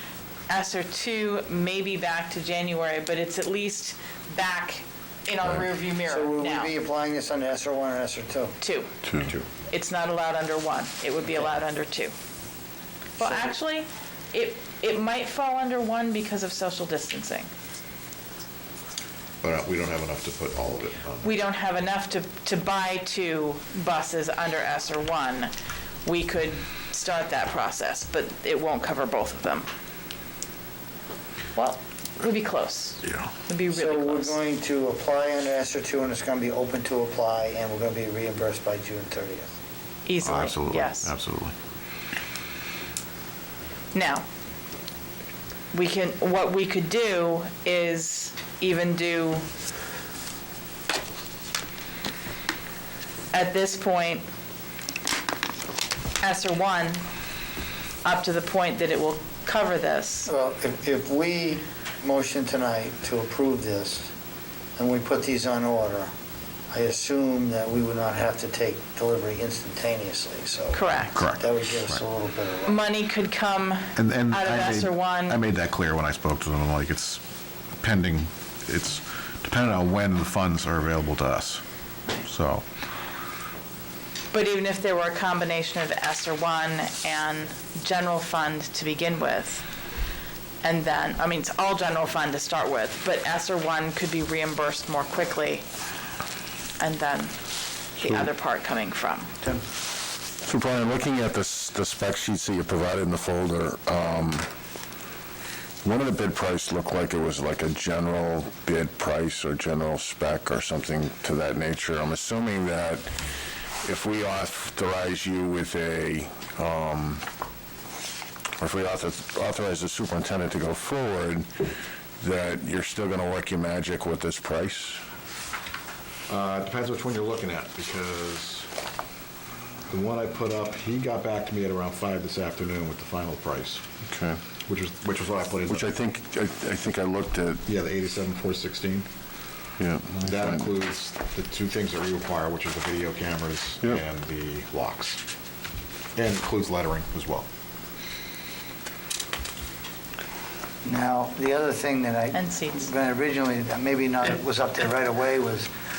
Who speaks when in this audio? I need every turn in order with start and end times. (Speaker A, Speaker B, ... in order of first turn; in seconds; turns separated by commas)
Speaker A: 0.5-6.7, Speaker B: 6.0-8.6, Speaker A: 8.6-8.9, Speaker C: 9.0-9.3, Speaker A: 9.7-12.1, Speaker B: 13.2-13.5, Speaker A: 13.2-17.5, Speaker D: 19.4-21.4, Speaker A: 21.2-25.5, Speaker A: 26.0-29.7, Speaker A: 31.5-34.4, Speaker B: 33.7-39.5, Speaker A: 40.0-41.1, Speaker D: 40.2-41.5, Speaker A: 43.9-44.2, Speaker A: 45.7-49.4, Speaker A: 53.3-54.2, Speaker A: 56.2-57.0, Speaker A: 58.0-60.3, Speaker B: 60.2-64.1, Speaker B: 64.8-66.1, Speaker B: 66.7-72.8, Speaker A: 70.7-71.2, Speaker D: 71.1-72.0, Speaker A: 72.7-75.4, Speaker D: 74.0-77.2, Speaker D: 77.8-81.6, Speaker D: 82.2-82.6, Speaker A: 84.3-89.6, Speaker A: 90.6-95.6, Speaker A: 96.8-97.3, Speaker A: 98.0-99.3, Speaker C: 98.0-98.3, Speaker C: 100.4-104.5, Speaker C: 105.8-113.1, Speaker C: 113.8-117.2, Speaker C: 118.6-121.5, Speaker C: 122.2-125.0, Speaker D: 126.3-128.7, Speaker D: 129.9-133.8, Speaker C: 134.1-134.4, Speaker D: 134.7-135.9, Speaker C: 135.7-137.6, Speaker D: 137.7-139.1, Speaker C: 139.8-140.7, Speaker D: 140.2-145.2, Speaker D: 146.2-147.5, Speaker B: 150.8-155.7, Speaker A: 152.3-152.9